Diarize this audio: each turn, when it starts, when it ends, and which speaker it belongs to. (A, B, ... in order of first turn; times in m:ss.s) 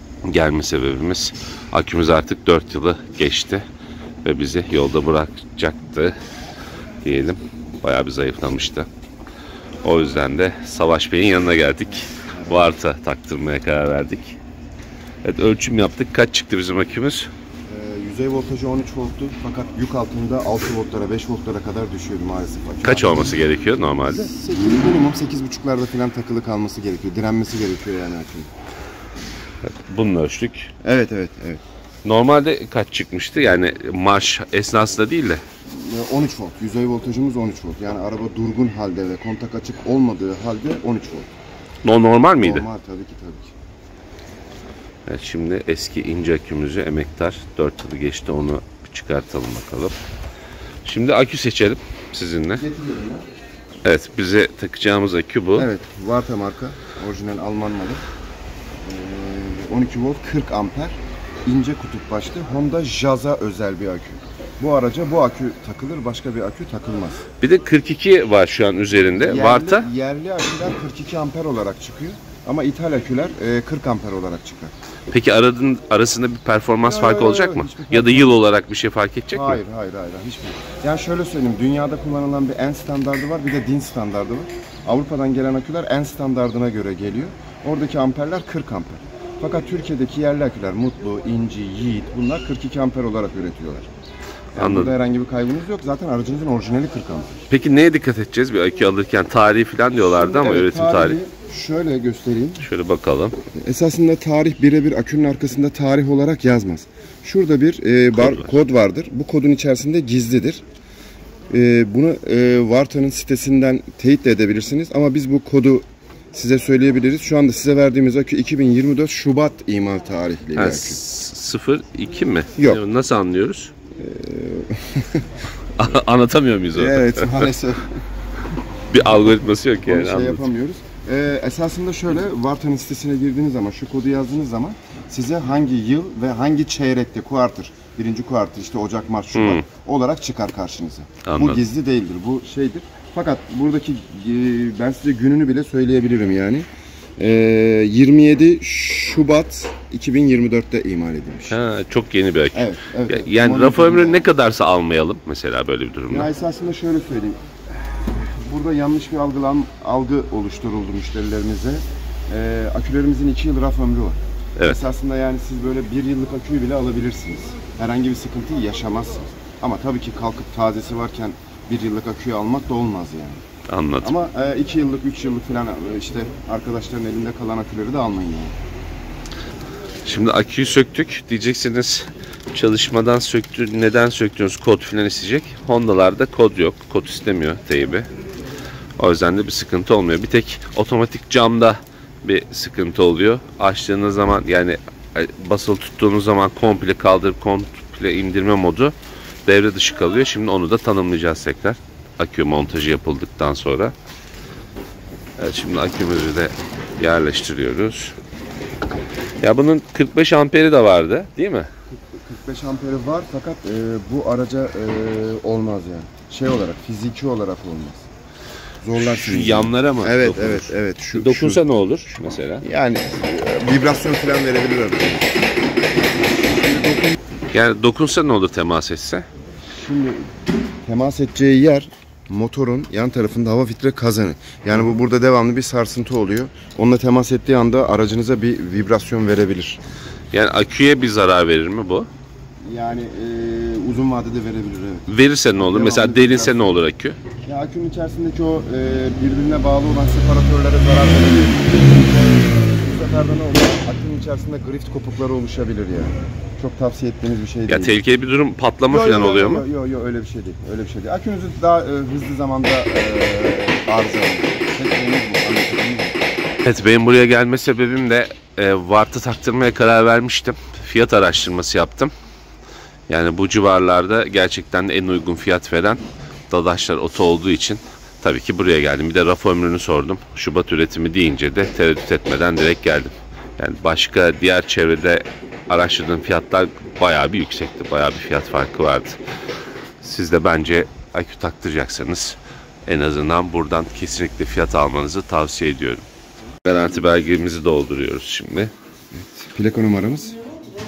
0:00.2-0:03.7 A
0:04.2-0:06.2 A
0:07.0-0:08.9 A
0:09.8-0:14.4 A
0:11.9-0:12.7 B
0:15.2-0:17.3 A
0:17.7-0:23.3 B
0:22.8-0:24.3 A
0:24.0-0:28.5 B
0:29.6-0:30.7 A
0:30.8-0:31.6 B
0:32.0-0:35.4 A
0:35.7-0:41.3 B
0:41.8-0:42.7 A
0:42.4-0:43.5 B
0:45.1-0:50.0 A
0:50.8-0:52.6 A
0:52.6-0:53.2 B
0:53.8-0:55.7 A
0:55.6-0:58.0 B
0:58.8-1:07.2 B
1:07.4-1:09.9 A
1:09.2-1:14.7 B
1:15.1-1:19.6 A
1:16.8-1:18.4 B
1:19.3-1:33.9 B
1:34.5-1:35.0 A
1:34.6-1:37.4 B
1:37.5-1:41.2 A
1:40.0-1:42.7 B
1:42.6-1:43.4 A
1:43.6-1:50.6 B
1:48.2-1:48.5 A
1:51.5-2:01.0 B
2:00.6-2:03.7 A
2:02.6-2:02.8 B
2:04.0-2:05.2 B
2:05.8-2:07.5 A
2:06.7-2:08.0 B
2:08.9-2:10.5 A
2:09.8-2:31.6 B
2:19.3-2:19.6 A
2:21.2-2:21.6 A
2:31.5-2:36.3 A
2:32.5-2:34.3 B
2:36.1-2:37.4 B
2:38.2-2:53.4 B
2:44.6-2:44.8 A
2:53.7-2:54.1 A
2:54.0-2:58.6 B
3:00.0-3:08.1 A
3:09.0-3:19.0 A
3:19.5-3:23.9 A
3:25.4-3:28.2 A
3:29.4-3:31.7 A
3:32.2-3:38.1 B
3:38.8-3:41.6 B
3:39.0-3:42.6 A
3:42.6-3:45.4 B
3:46.4-3:47.2 B
3:47.5-3:49.3 A
3:49.7-3:50.3 B
3:50.8-3:59.8 B
4:00.3-4:02.1 A
4:02.6-4:06.7 B
4:05.1-4:07.2 A
4:07.4-4:18.0 B
4:17.7-4:19.6 A
4:18.9-4:26.2 B
4:26.6-4:32.1 A
4:33.1-4:49.2 A
4:50.0-4:56.1 A
4:56.6-4:58.7 A
4:59.1-5:00.4 B